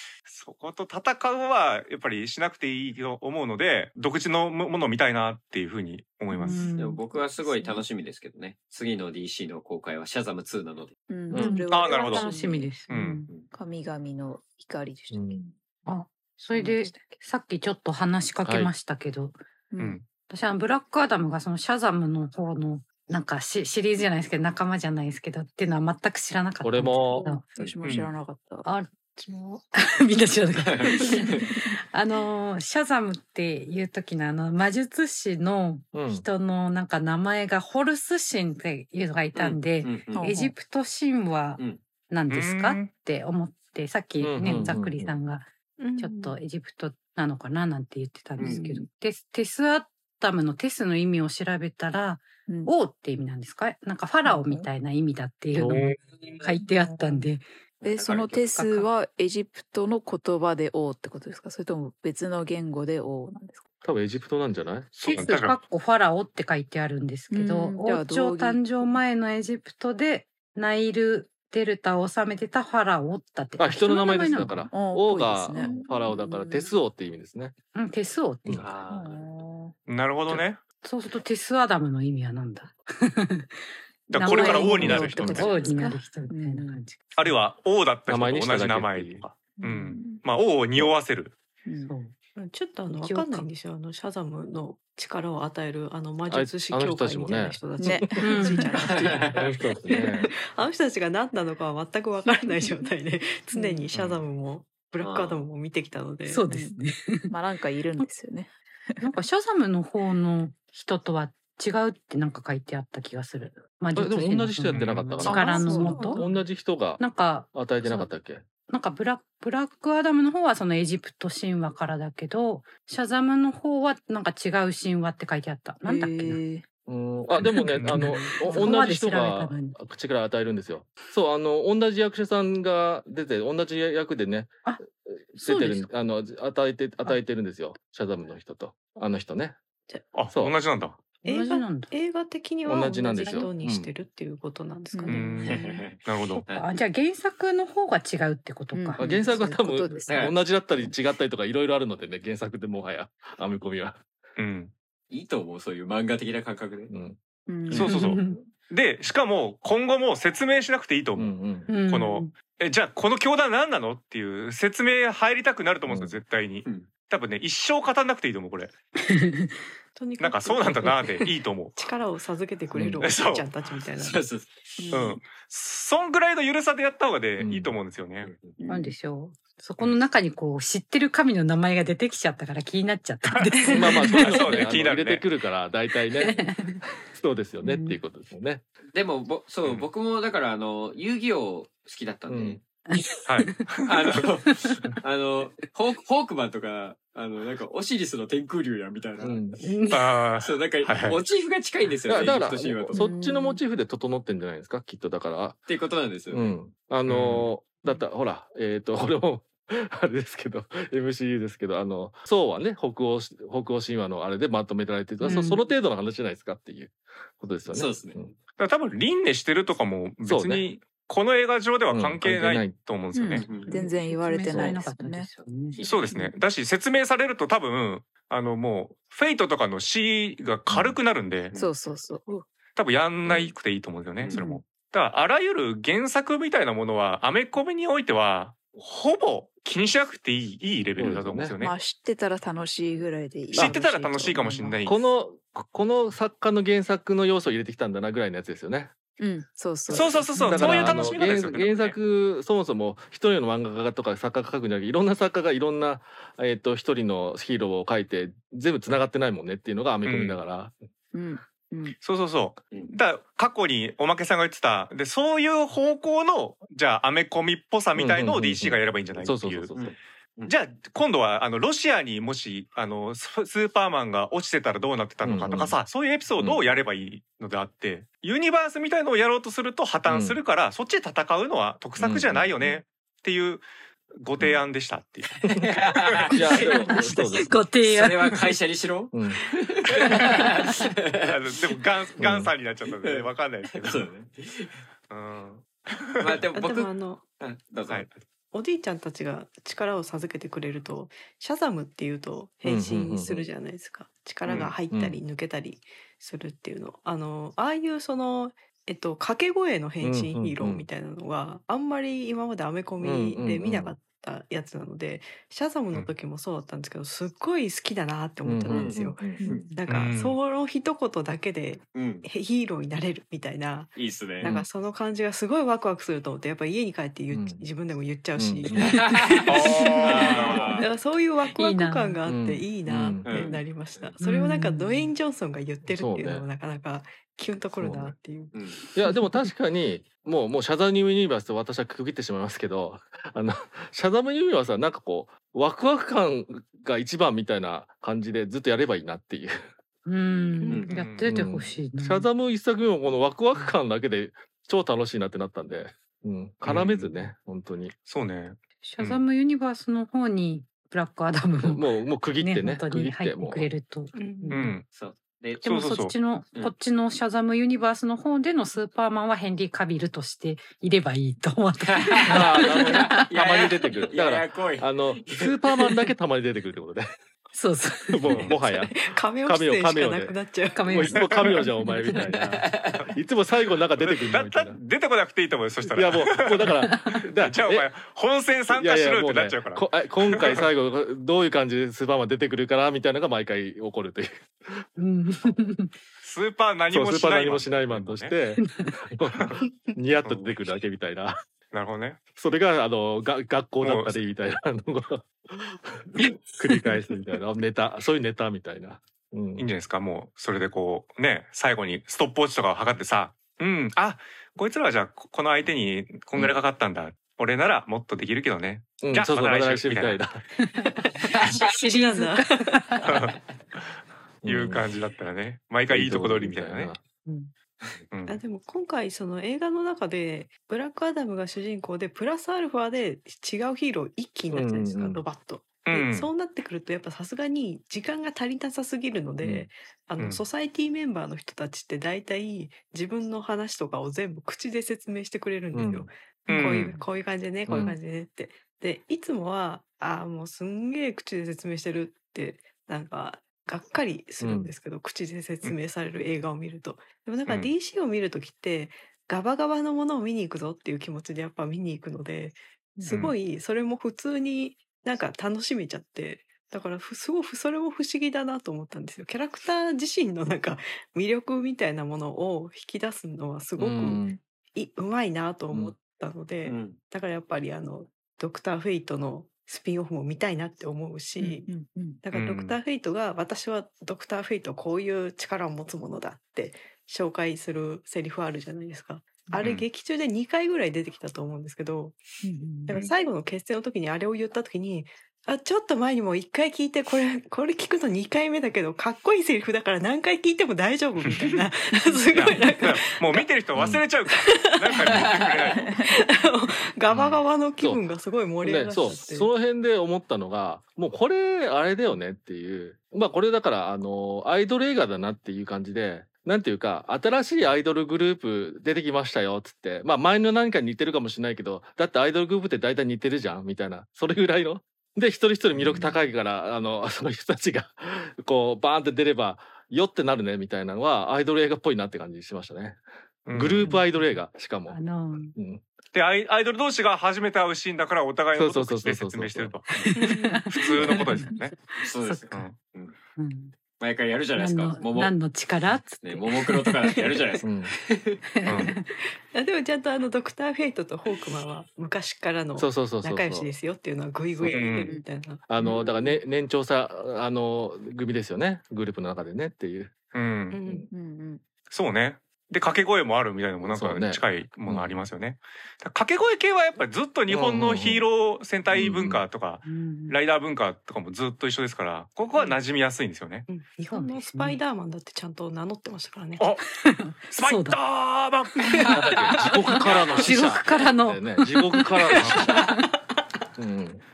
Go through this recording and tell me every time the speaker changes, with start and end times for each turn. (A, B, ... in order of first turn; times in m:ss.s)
0:00.3-0:06.7 A
0:06.3-0:07.0 B
0:06.8-0:11.0 C
0:07.4-0:07.8 D
0:11.1-0:12.7 D
0:11.3-0:11.6 E
0:11.3-0:13.3 B
0:11.7-0:12.3 A
0:12.9-0:13.2 A
0:13.5-0:15.5 D
0:15.1-0:15.5 E
0:15.9-0:19.4 B
0:16.5-0:16.9 D
0:18.4-0:18.7 E
0:19.7-0:20.0 D
0:19.8-0:20.1 A
0:20.3-0:27.4 B
0:26.6-0:27.3 E
0:27.1-0:28.7 D
0:27.8-0:28.1 A
0:28.6-0:57.5 B
0:30.6-0:31.5 C
0:35.9-0:36.3 E
0:39.4-0:40.3 C
0:40.2-0:40.5 D
0:42.3-0:43.0 A
0:44.2-0:45.2 E
0:45.8-0:46.4 F
0:48.4-0:48.7 C
0:48.4-0:48.8 D
0:52.5-0:52.7 D
0:54.2-0:54.7 D
0:55.6-0:55.9 E
0:56.6-0:57.3 D
0:57.8-0:58.6 C
0:57.8-1:03.6 D
0:58.6-0:58.9 B
1:03.8-1:04.9 E
1:05.0-1:05.6 A
1:05.0-1:14.7 B
1:07.3-1:09.0 D
1:13.6-1:17.6 E
1:14.7-1:16.7 D
1:17.8-1:18.7 B
1:18.6-1:19.2 C
1:18.8-1:19.8 D
1:19.9-1:20.6 A
1:20.8-1:27.3 B
1:24.1-1:25.7 A
1:24.2-1:26.8 D
1:27.1-1:31.3 A
1:28.1-1:29.2 E
1:29.6-1:30.2 D
1:31.6-1:31.9 D
1:31.9-1:32.2 B
1:32.4-1:46.4 F
1:32.9-1:33.5 B
1:36.3-1:38.2 E
1:37.8-1:39.1 D
1:38.2-1:38.8 B
1:38.9-1:39.4 C
1:39.3-1:40.3 E
1:42.6-1:42.9 D
1:43.5-1:43.8 D
1:43.9-1:44.2 A
1:45.0-1:45.5 C
1:46.3-1:47.3 B
1:46.5-1:46.8 D
1:47.3-1:49.0 D
1:49.0-1:56.3 B
1:54.0-1:57.0 E
1:54.7-1:55.0 A
1:55.2-1:56.4 D
1:57.0-1:58.1 B
1:57.5-1:58.4 E
1:58.7-2:06.4 B
2:05.8-2:06.6 D
2:06.9-2:19.6 E
2:07.7-2:08.3 A
2:07.8-2:09.8 B
2:15.4-2:15.9 B
2:20.1-2:21.0 A
2:21.2-2:21.9 B
2:21.2-2:25.4 F
2:22.6-2:23.9 E
2:24.9-2:25.2 D
2:25.1-2:26.4 A
2:25.1-2:29.4 B
2:25.4-2:26.7 C
2:28.7-2:30.9 D
2:29.0-2:34.0 E
2:30.1-2:30.4 C
2:34.4-2:34.7 A
2:35.1-2:36.9 C
2:36.9-2:37.2 E
2:37.5-2:38.1 D
2:37.7-2:38.3 E
2:37.7-2:48.7 A
2:37.8-2:38.4 B
2:41.2-2:41.7 E
2:41.7-2:42.4 B
2:46.6-2:46.9 C
2:49.1-2:49.6 B
2:50.0-2:54.2 F
2:50.2-2:51.8 A
2:52.8-2:53.0 E
2:53.0-2:53.5 A
2:54.0-2:55.0 C
2:54.8-2:55.2 D
2:54.9-2:58.3 A
2:57.4-2:57.8 E
2:58.2-2:58.6 C
2:58.6-2:59.0 D
2:58.7-3:04.7 B
3:03.7-3:08.6 E
3:04.1-3:05.3 A
3:06.2-3:06.8 B
3:07.6-3:08.0 B
3:08.9-3:12.6 C
3:12.3-3:12.6 E
3:12.9-3:13.7 B
3:13.3-3:14.2 A
3:13.9-3:23.0 C
3:14.5-3:14.9 B
3:19.2-3:19.6 E
3:19.6-3:20.0 B
3:19.9-3:21.2 A
3:22.1-3:25.6 E
3:22.9-3:23.6 D
3:25.7-3:26.5 C
3:26.3-3:38.4 E
3:27.1-3:27.5 A
3:35.2-3:35.6 B
3:37.7-3:38.2 C
3:38.6-3:43.6 A
3:40.2-3:40.6 E
3:41.9-3:42.8 E
3:43.1-3:45.3 D
3:43.4-3:43.8 C
3:43.6-3:46.3 B
3:44.5-3:44.8 E
3:45.8-3:46.1 C
3:45.8-3:51.5 A
3:51.6-3:52.5 D
3:52.8-4:01.8 A
3:54.3-3:54.6 B
4:01.0-4:01.6 E
4:01.6-4:04.8 D
4:03.5-4:05.0 A
4:04.8-4:08.9 E
4:09.2-4:11.2 D
4:09.9-4:12.0 A
4:10.0-4:20.7 E
4:20.0-4:20.4 A
4:21.1-4:22.0 D
4:22.0-4:29.7 A
4:28.0-4:29.9 E
4:29.7-4:30.6 C
4:30.5-4:43.6 A
4:35.2-4:35.8 E
4:40.1-4:40.4 E
4:42.0-4:42.7 E
4:44.2-4:45.3 A
4:45.3-4:46.9 C
4:45.9-4:46.6 A
4:46.3-4:47.6 E
4:46.5-4:48.4 B
4:47.8-4:54.8 C
4:49.1-4:49.4 E
4:51.2-4:54.1 A
4:52.2-4:52.5 E
4:55.1-4:56.4 A
4:56.2-4:58.1 C
4:56.5-4:57.2 F
4:58.5-5:38.6 F
5:02.6-5:03.5 E
5:04.9-5:05.2 E
5:10.0-5:10.9 E
5:13.0-5:14.0 E
5:18.4-5:19.4 E
5:18.7-5:19.8 C
5:19.4-5:19.7 D
5:19.9-5:20.4 A
5:22.0-5:22.3 C
5:24.0-5:24.5 C
5:24.4-5:24.7 E
5:27.3-5:27.6 E
5:28.4-5:29.0 E
5:28.8-5:30.9 C
5:29.5-5:30.7 A
5:31.5-5:32.2 B
5:32.3-5:33.5 E
5:33.2-5:34.2 C
5:34.2-5:35.1 B
5:35.9-5:36.5 E
5:37.8-5:38.2 E
5:38.5-5:38.8 C
5:39.0-5:49.5 E
5:50.0-5:52.3 B
5:50.6-5:50.9 F
5:50.9-5:51.3 A
5:51.2-5:58.0 E
5:56.6-5:57.1 A
5:58.1-5:59.2 A
5:58.8-6:01.9 B
6:01.6-6:03.7 E
6:02.4-6:04.8 B
6:04.2-6:04.6 F
6:04.5-6:04.9 A
6:04.9-6:05.6 C
6:05.6-6:13.3 B
6:05.6-6:06.2 A
6:11.8-6:15.9 C
6:12.3-6:17.1 E
6:17.5-6:18.6 B
6:18.1-6:20.4 E
6:18.6-6:21.1 F
6:20.7-6:22.6 B
6:20.9-6:24.8 E
6:22.6-6:23.0 C
6:24.0-6:30.7 A
6:25.9-6:27.9 E
6:26.8-6:27.1 B
6:28.7-6:34.4 E
6:35.0-6:35.9 B
6:36.2-6:38.4 A
6:36.9-6:41.4 E
6:38.6-6:39.0 B
6:40.2-6:40.5 A
6:41.7-6:42.2 A
6:42.4-6:46.0 E
6:43.8-6:44.2 A
6:46.6-6:49.7 E
6:49.6-7:00.2 A
6:59.0-7:00.4 E
7:00.6-7:03.0 B
7:01.4-7:01.7 C
7:01.7-7:02.8 F
7:03.0-7:03.9 A
7:04.4-7:04.9 E
7:04.4-7:07.0 A
7:05.9-7:07.0 E
7:07.3-7:07.5 B
7:08.1-7:08.4 A
7:08.3-8:01.7 F
7:14.5-7:15.2 E
7:15.8-7:16.3 A
7:19.4-7:19.7 E
7:25.7-7:26.1 E
7:26.5-7:27.0 A
7:27.7-7:28.0 E
7:34.4-7:34.7 E
7:37.5-7:37.7 A
7:43.1-7:43.4 A
7:53.8-7:54.4 E
7:56.6-7:57.0 C
8:01.4-8:02.2 D
8:02.2-8:12.2 F
8:02.3-8:02.8 A
8:09.6-8:09.9 A
8:12.4-8:13.0 D
8:12.9-8:23.5 F
8:21.2-8:21.6 A
8:21.9-8:22.2 D
8:22.3-8:25.9 A
8:23.8-8:24.0 E
8:24.3-8:29.5 F
8:28.6-8:53.0 E
8:53.5-8:54.0 A
8:53.5-8:55.0 E
8:53.7-8:55.6 B
8:55.5-8:55.8 E
8:56.1-9:00.1 A
8:58.6-8:59.8 E
8:59.9-9:02.6 B
9:00.2-9:00.7 F
9:00.7-9:01.8 A
9:01.0-9:01.2 E
9:02.0-9:03.2 C
9:02.5-9:02.8 A
9:03.4-9:03.8 B
9:04.0-9:05.4 C
9:04.6-9:07.2 B
9:06.2-9:08.4 C
9:07.6-9:07.9 E
9:08.6-9:09.1 B
9:08.7-9:08.9 A
9:09.5-9:16.4 F
9:12.8-9:13.7 E
9:14.7-9:15.1 A
9:15.7-9:20.2 E
9:20.3-9:20.8 A
9:20.7-9:21.1 F
9:21.1-9:21.6 D
9:21.9-9:33.7 A
9:23.8-9:25.3 E
9:27.5-9:28.2 E
9:28.9-9:29.4 E
9:29.8-9:30.4 B
9:33.7-9:36.6 F
9:34.1-9:34.8 B
9:36.6-9:36.8 A
9:36.9-9:38.0 B
9:37.5-9:39.2 A
9:38.8-9:43.1 B
9:39.1-9:42.7 E
9:40.0-9:40.6 A
9:42.4-9:42.7 A
9:43.8-9:44.2 E